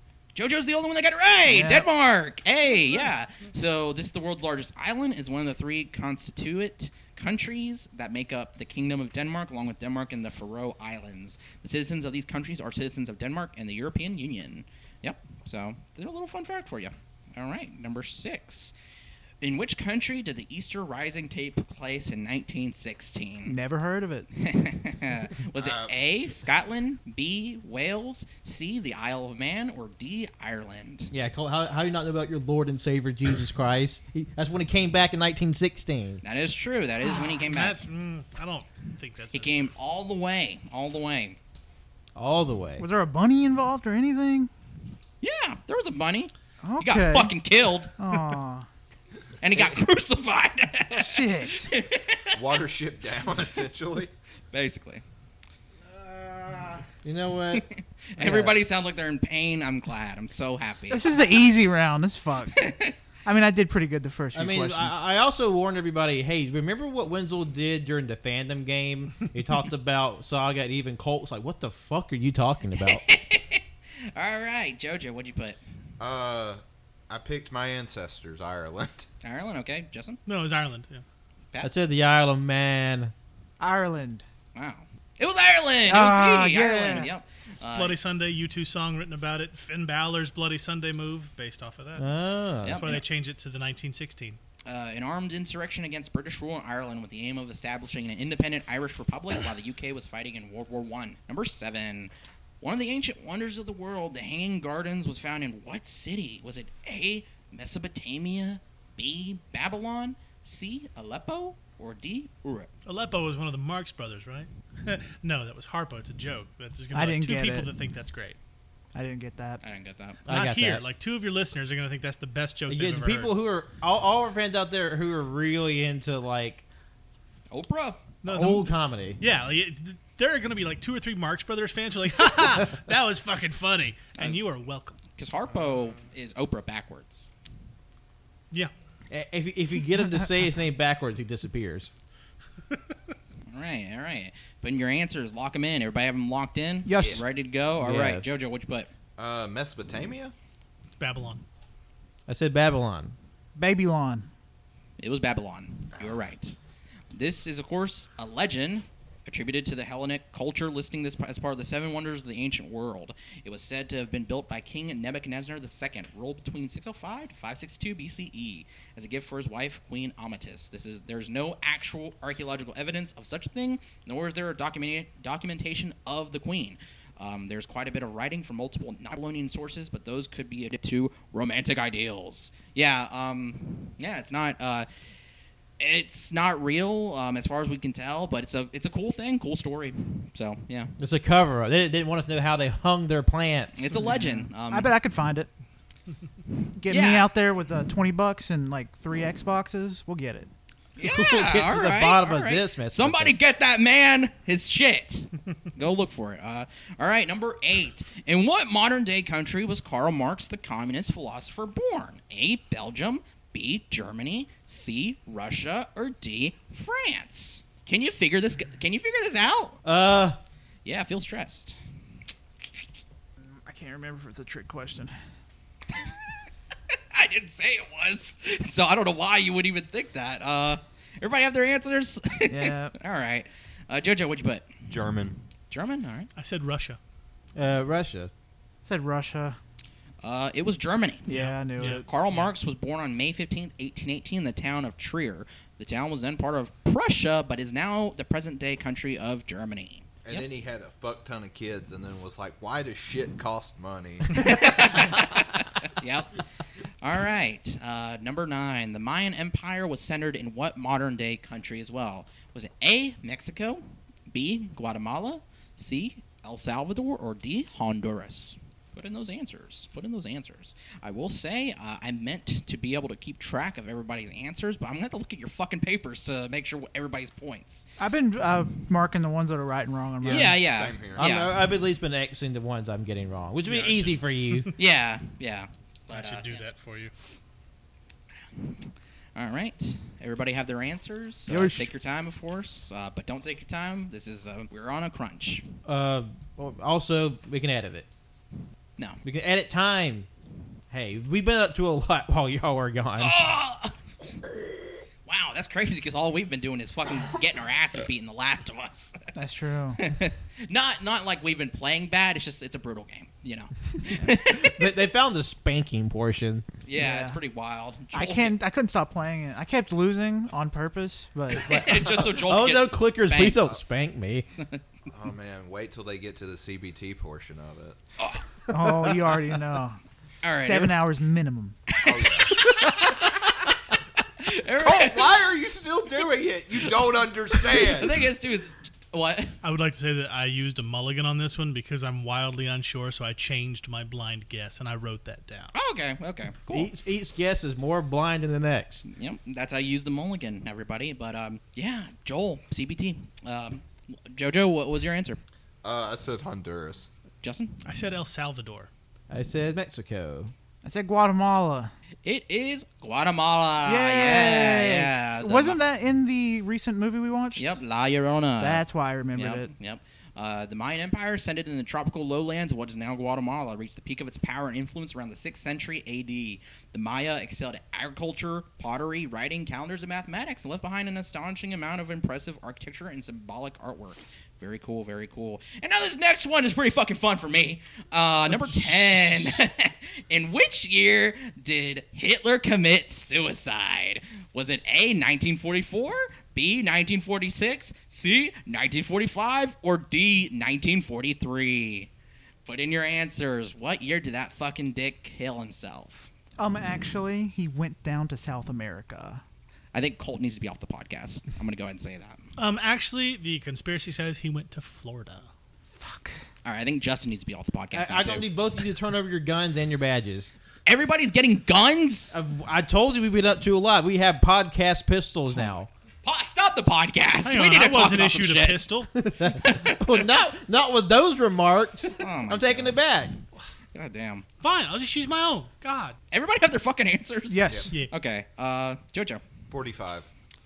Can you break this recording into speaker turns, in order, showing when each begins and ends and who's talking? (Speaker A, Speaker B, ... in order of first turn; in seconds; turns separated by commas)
Speaker A: 0.3-18.7, Speaker B: 1.5-1.9, Speaker A: 19.4-23.6, Speaker B: 23.5-24.3, Speaker A: 24.4-31.1, Speaker C: 25.6-25.9, Speaker D: 31.1-36.2, Speaker A: 36.2-37.8, Speaker B: 37.0-37.4, Speaker E: 37.5-39.7, Speaker A: 39.3-41.4, Speaker D: 42.1-42.9, Speaker B: 42.8-44.5, Speaker A: 45.2-48.2, Speaker B: 46.6-47.3, Speaker B: 48.0-48.7, Speaker A: 49.4-52.4, Speaker B: 51.0-51.7, Speaker C: 52.3-54.1, Speaker A: 54.5-55.0, Speaker D: 55.9-57.6, Speaker A: 57.5-61.3, Speaker D: 58.2-58.6, Speaker B: 60.9-62.7, Speaker A: 62.5-62.9, Speaker B: 63.2-65.0, Speaker D: 64.3-73.0, Speaker A: 72.9-73.6, Speaker A: 74.1-75.6, Speaker C: 76.0-79.1, Speaker A: 79.2-80.2, Speaker E: 80.2-81.0, Speaker D: 81.6-83.1, Speaker B: 83.6-84.2, Speaker A: 84.5-88.0, Speaker B: 85.9-87.1, Speaker E: 87.7-92.1, Speaker D: 92.0-92.8, Speaker A: 92.6-93.0, Speaker E: 92.7-94.4, Speaker A: 94.7-112.7, Speaker E: 112.8-118.4, Speaker B: 116.9-117.7, Speaker B: 118.9-119.6, Speaker A: 119.6-120.2, Speaker D: 120.2-120.8, Speaker E: 120.3-123.3, Speaker D: 122.7-126.6, Speaker A: 127.5-128.0, Speaker E: 128.2-135.0, Speaker D: 128.3-129.2, Speaker A: 135.1-137.3, Speaker D: 139.1-141.9, Speaker A: 143.5-148.9, Speaker B: 146.8-147.2, Speaker D: 147.8-148.3, Speaker C: 149.2-150.3, Speaker E: 151.0-151.4, Speaker D: 152.3-153.1, Speaker B: 153.6-154.3, Speaker A: 155.0-156.5, Speaker A: 157.1-184.9, Speaker A: 185.8-190.9, Speaker D: 191.0-193.9, Speaker A: 193.8-194.9, Speaker B: 193.9-195.5, Speaker B: 196.8-200.5, Speaker A: 196.9-197.3, Speaker A: 201.0-219.8, Speaker D: 201.0-203.3, Speaker D: 219.8-220.4, Speaker A: 220.8-221.8, Speaker B: 223.4-225.1, Speaker A: 225.9-226.2, Speaker A: 226.9-234.8, Speaker B: 232.5-232.9, Speaker C: 234.9-235.4, Speaker A: 235.7-236.3, Speaker E: 236.3-237.0, Speaker D: 237.6-238.3, Speaker B: 238.8-239.6, Speaker A: 240.2-250.4, Speaker B: 241.3-242.0, Speaker E: 241.3-242.5, Speaker C: 250.2-254.7, Speaker A: 254.3-256.4, Speaker A: 257.0-277.9, Speaker B: 278.0-280.6, Speaker C: 280.2-281.4, Speaker A: 280.2-281.6, Speaker D: 281.1-284.7, Speaker E: 283.6-284.7, Speaker A: 284.8-286.6, Speaker E: 286.1-287.1, Speaker A: 289.3-295.7, Speaker B: 291.5-291.8, Speaker D: 295.8-298.1, Speaker D: 299.2-300.3, Speaker D: 300.9-303.4, Speaker A: 303.2-303.9, Speaker A: 305.2-309.2, Speaker B: 309.4-310.1, Speaker A: 310.0-314.9, Speaker D: 314.2-316.6, Speaker A: 316.8-318.6, Speaker B: 316.9-317.4, Speaker B: 318.1-322.1, Speaker A: 321.6-323.8, Speaker D: 321.6-324.4, Speaker C: 325.1-328.0, Speaker B: 328.7-331.8, Speaker A: 330.4-331.0, Speaker A: 331.9-333.6, Speaker C: 332.0-332.6, Speaker A: 334.4-335.4, Speaker C: 334.8-338.3, Speaker A: 337.5-339.6, Speaker E: 339.6-345.7, Speaker A: 345.7-346.9, Speaker D: 346.7-349.1, Speaker A: 349.1-355.4, Speaker C: 355.8-357.1, Speaker A: 357.4-357.8, Speaker E: 357.8-358.9, Speaker D: 359.3-360.5, Speaker B: 360.8-361.9, Speaker A: 362.2-365.8, Speaker B: 363.8-367.7, Speaker A: 367.6-402.1, Speaker B: 368.6-369.7, Speaker A: 402.6-406.3, Speaker B: 406.6-409.4, Speaker A: 409.9-412.5, Speaker E: 412.6-415.5, Speaker B: 416.0-416.4, Speaker A: 416.6-418.5, Speaker D: 417.9-420.5, Speaker A: 420.9-422.3, Speaker D: 422.3-425.9, Speaker A: 426.2-428.9, Speaker E: 427.4-429.1, Speaker D: 429.1-433.4, Speaker A: 429.6-430.2, Speaker A: 432.1-432.9, Speaker A: 433.9-434.4, Speaker E: 434.6-436.2, Speaker A: 436.3-439.4, Speaker B: 437.5-438.0, Speaker C: 439.7-440.3